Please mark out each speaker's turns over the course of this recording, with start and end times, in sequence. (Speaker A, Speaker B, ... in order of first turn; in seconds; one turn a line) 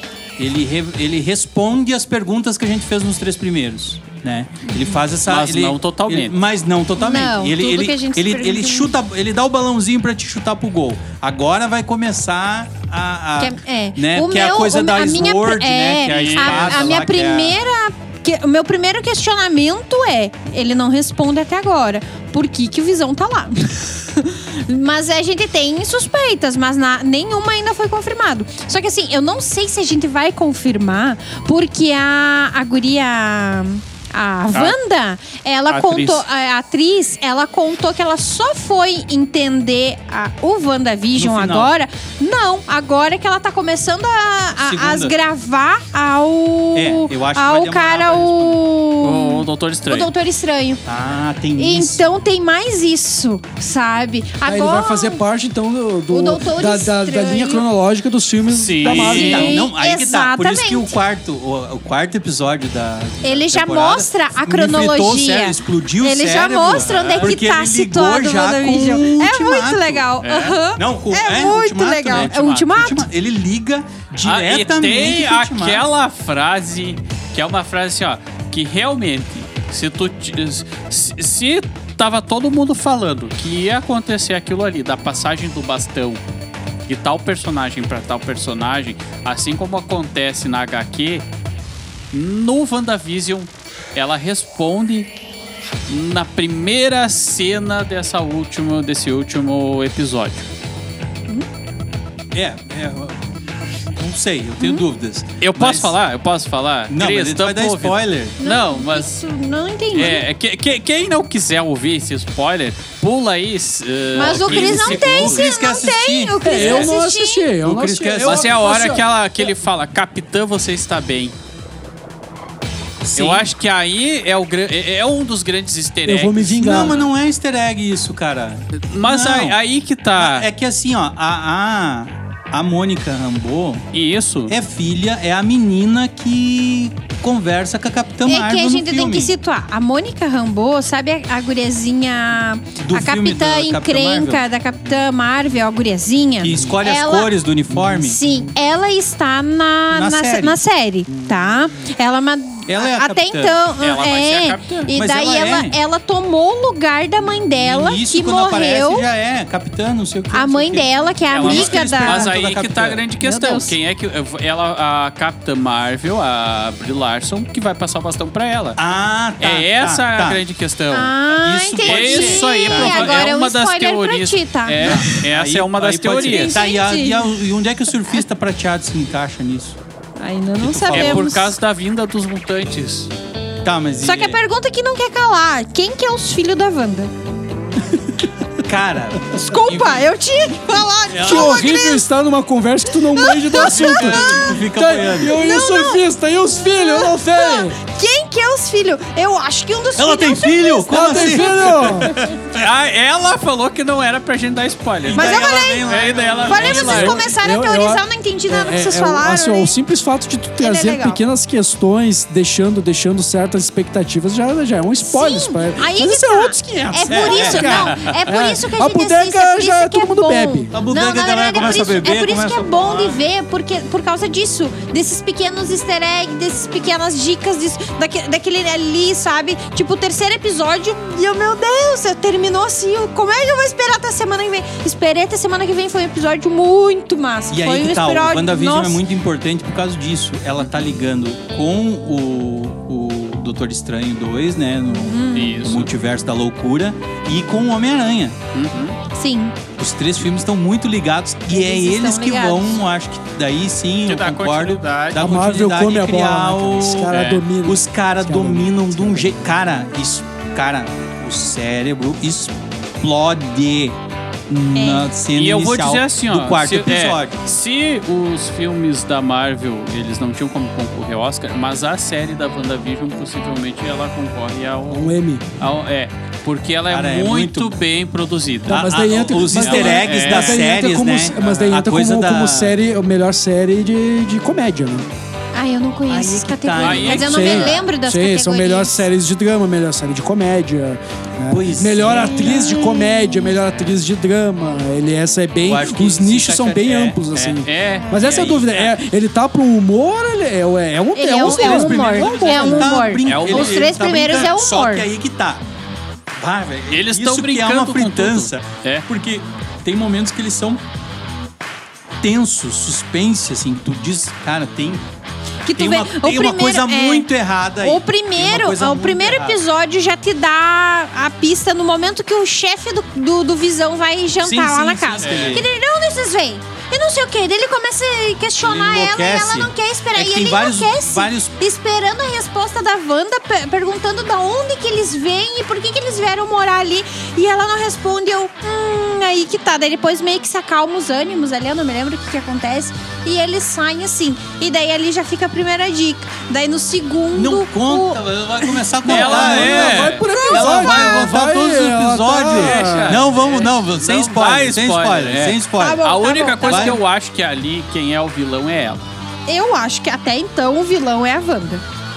Speaker A: 0.4-17.6
Speaker B: 4.7-5.0
Speaker C: 5.3-6.4
Speaker B: 7.0-8.9
Speaker B: 13.4-50.8
Speaker C: 16.1-16.9
Speaker C: 35.7-36.2
Speaker A: 41.2-41.7
Speaker A: 44.5-45.1
Speaker A: 46.8-48.6
Speaker C: 49.0-50.1
Speaker A: 50.9-52.0
Speaker B: 51.6-55.2
Speaker D: 54.5-59.6
Speaker B: 56.1-57.6
Speaker C: 58.5-59.6
Speaker A: 58.9-70.1
Speaker B: 59.0-61.0
Speaker B: 63.2-73.1
Speaker C: 66.8-67.4
Speaker C: 70.2-70.6
Speaker A: 70.8-75.9
Speaker C: 72.1-72.7
Speaker C: 74.2-86.2
Speaker C: 86.9-91.2
Speaker C: 92.1-95.1
Speaker C: 95.9-100.5
Speaker A: 102.3-103.2
Speaker A: 104.0-106.0
Speaker B: 104.6-104.8
Speaker C: 105.4-109.1
Speaker A: 106.9-108.4
Speaker B: 108.4-110.2
Speaker C: 109.9-115.5
Speaker A: 114.2-116.9
Speaker B: 114.2-117.5
Speaker D: 116.4-119.0
Speaker A: 117.6-118.7
Speaker C: 118.2-121.3
Speaker A: 123.0-123.5
Speaker C: 123.2-127.1
Speaker D: 126.1-127.0
Speaker A: 126.6-129.6
Speaker C: 128.8-130.5
Speaker A: 130.2-133.8
Speaker C: 133.9-134.5
Speaker A: 134.5-139.3
Speaker B: 138.3-147.3
Speaker A: 142.8-144.5
Speaker A: 146.4-148.2
Speaker B: 147.8-159.1
Speaker A: 149.9-150.6
Speaker A: 152.7-153.6
Speaker C: 153.8-154.9
Speaker A: 154.9-155.8
Speaker A: 157.6-163.0
Speaker B: 160.3-162.3
Speaker C: 161.3-168.8
Speaker B: 163.2-163.8
Speaker A: 168.8-170.4
Speaker C: 169.4-171.1
Speaker B: 170.9-175.0
Speaker A: 171.3-173.2
Speaker C: 171.8-176.6
Speaker A: 174.8-179.8
Speaker B: 176.3-177.4
Speaker B: 180.2-181.5
Speaker A: 180.6-181.2
Speaker C: 180.9-183.1
Speaker A: 183.6-184.4
Speaker B: 184.0-187.1
Speaker A: 188.6-190.0
Speaker B: 189.3-192.0
Speaker A: 191.1-191.7
Speaker D: 191.2-197.8
Speaker B: 193.1-194.5
Speaker A: 193.6-195.4
Speaker B: 195.2-196.0
Speaker B: 196.6-201.9
Speaker A: 200.0-202.3
Speaker D: 200.9-202.1
Speaker C: 202.5-207.2
Speaker A: 205.0-207.3
Speaker B: 205.1-209.7
Speaker D: 206.9-220.8
Speaker B: 210.6-211.2
Speaker B: 215.0-239.0
Speaker A: 217.1-217.9
Speaker A: 220.7-223.2
Speaker A: 237.5-248.4
Speaker B: 244.9-245.6
Speaker C: 245.3-245.9
Speaker C: 248.5-249.0
Speaker B: 249.1-249.6
Speaker A: 249.8-264.0
Speaker B: 251.5-252.8
Speaker C: 254.1-255.4
Speaker D: 255.2-259.6
Speaker C: 257.1-257.4
Speaker A: 264.5-267.4
Speaker B: 264.7-265.1
Speaker C: 265.3-278.9
Speaker D: 274.9-275.5
Speaker A: 276.9-277.7
Speaker A: 278.7-282.8
Speaker D: 278.7-285.1
Speaker C: 279.5-280.7
Speaker B: 285.5-289.1
Speaker A: 286.1-287.8
Speaker C: 286.8-287.8
Speaker D: 287.2-302.9
Speaker A: 291.5-292.8
Speaker B: 292.1-293.6
Speaker A: 295.6-297.6
Speaker C: 297.6-298.8
Speaker A: 298.2-298.8
Speaker B: 301.1-305.1
Speaker A: 301.4-305.6
Speaker C: 301.8-303.9
Speaker A: 306.4-310.8
Speaker C: 306.9-309.1
Speaker A: 312.2-315.1
Speaker B: 315.7-317.3
Speaker A: 315.8-319.6
Speaker B: 317.8-348.8
Speaker A: 324.4-325.7
Speaker C: 325.2-325.6
Speaker A: 328.6-331.5
Speaker A: 347.3-356.1
Speaker C: 349.1-350.3
Speaker D: 349.1-353.3
Speaker B: 350.3-351.1
Speaker C: 352.5-359.1
Speaker B: 355.8-357.0
Speaker A: 356.7-357.0
Speaker B: 359.5-361.8